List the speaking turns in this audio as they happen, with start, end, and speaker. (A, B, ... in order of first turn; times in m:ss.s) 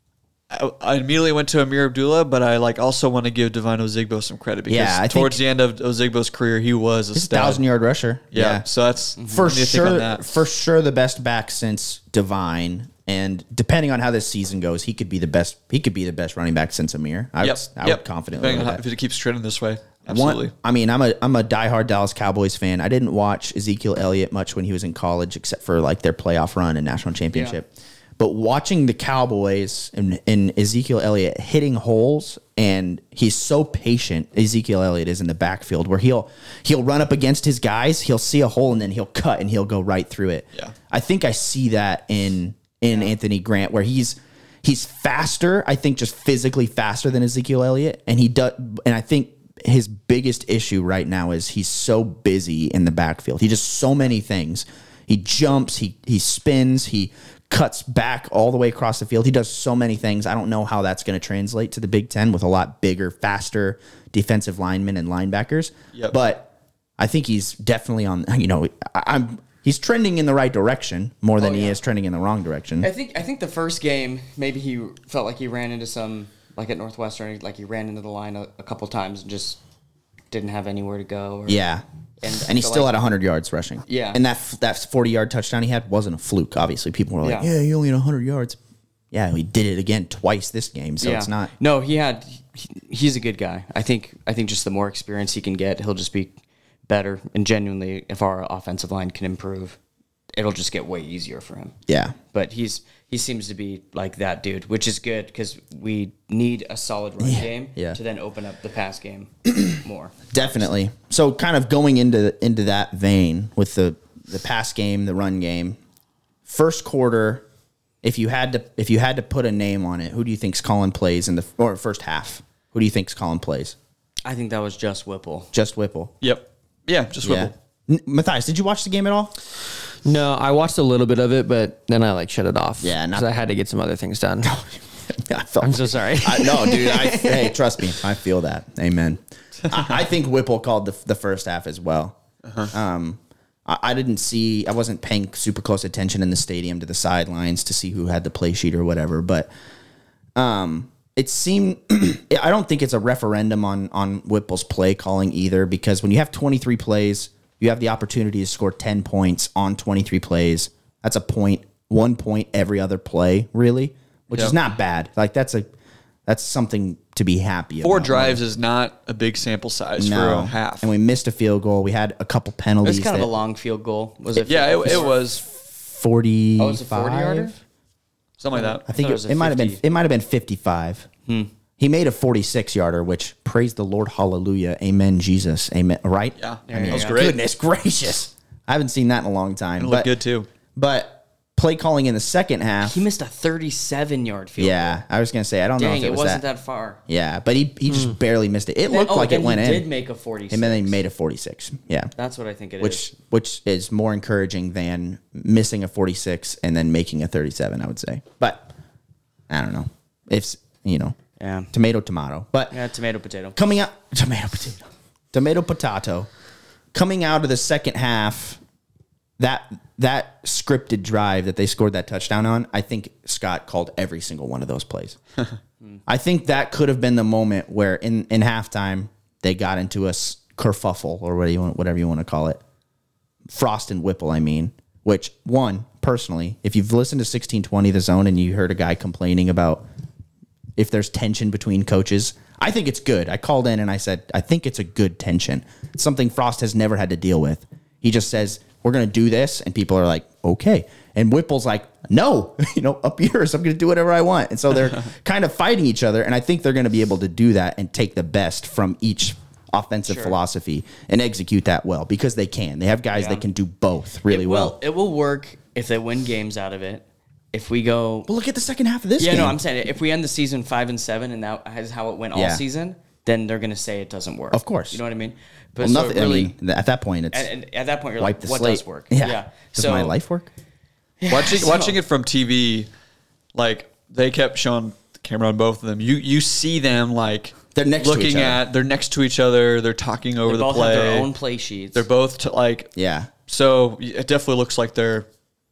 0:00.5-0:07.6 A
0:04.7-0:05.4 B
0:07.1-0:08.6 B
0:08.3-0:10.3 A
0:09.2-0:09.5 C
0:09.3-0:18.8 B
0:17.4-0:20.5 A
0:20.1-1:12.9 B
0:27.3-0:27.6 C
1:11.4-1:11.8 C
1:12.8-1:19.6 C
1:20.3-1:21.6 C
1:21.5-1:21.8 B
1:22.2-1:23.0 C
1:22.4-1:28.6 B
1:23.9-1:24.2 C
1:27.2-1:27.5 C
1:29.1-1:31.5 B
1:31.0-1:36.4 C
1:36.9-1:39.8 C
1:40.4-1:41.8 C
1:41.9-1:42.2 B
1:42.3-1:50.7 C
1:47.2-1:48.0 B
1:50.3-1:55.8 B
1:56.5-1:57.4 B
1:58.0-2:03.8 B
2:04.3-2:05.5 C
2:05.5-2:06.1 B
2:06.2-2:07.5 A
2:07.2-2:09.4 B
2:10.0-2:14.5 D
2:12.8-2:13.3 B
2:14.4-2:22.2 B
2:15.6-2:17.2 D
2:22.4-2:22.7 A
2:22.7-2:29.5 B
2:30.4-2:45.7 B
2:46.3-2:48.4 B
2:47.8-2:50.9 A
2:50.0-2:53.3 B
2:52.8-2:55.1 C
2:54.4-2:55.4 A
2:54.9-2:57.5 B
2:56.6-2:57.6 C
2:58.4-2:58.8 A
2:58.5-2:59.8 C
2:58.9-3:01.1 B
3:01.3-3:01.5 C
3:01.8-3:10.1 B
3:06.4-3:07.4 A
3:06.7-3:07.3 C
3:09.8-3:10.5 A
3:10.8-3:13.0 B
3:12.8-3:15.0 C
3:14.6-3:16.4 B
3:15.8-3:17.0 C
3:17.1-3:19.9 B
3:18.9-3:21.0 C
3:20.5-3:22.1 B
3:22.2-3:23.1 C
3:22.8-3:28.7 B
3:29.5-3:31.2 B
3:31.4-3:31.7 C
3:31.7-3:32.8 B
3:32.7-3:33.6 C
3:33.6-3:36.3 B
3:36.9-3:38.6 B
3:39.4-3:45.2 B
3:46.1-3:52.6 B
3:53.5-3:59.8 B
4:00.8-4:24.8 B
4:20.1-4:20.4 C
4:23.1-4:23.4 C
4:24.3-4:28.3 C
4:28.3-4:29.6 B
4:29.2-4:36.5 C
4:32.3-4:32.6 B
4:34.5-4:35.0 B
4:35.8-4:37.5 B
4:37.3-4:40.1 C
4:38.2-4:40.5 B
4:41.2-4:42.0 C
4:41.3-4:42.9 A
4:43.6-4:51.3 A
4:47.7-4:48.6 B
4:50.5-4:52.1 C
4:51.9-4:52.9 A
4:53.0-4:53.3 B
4:53.5-4:55.3 A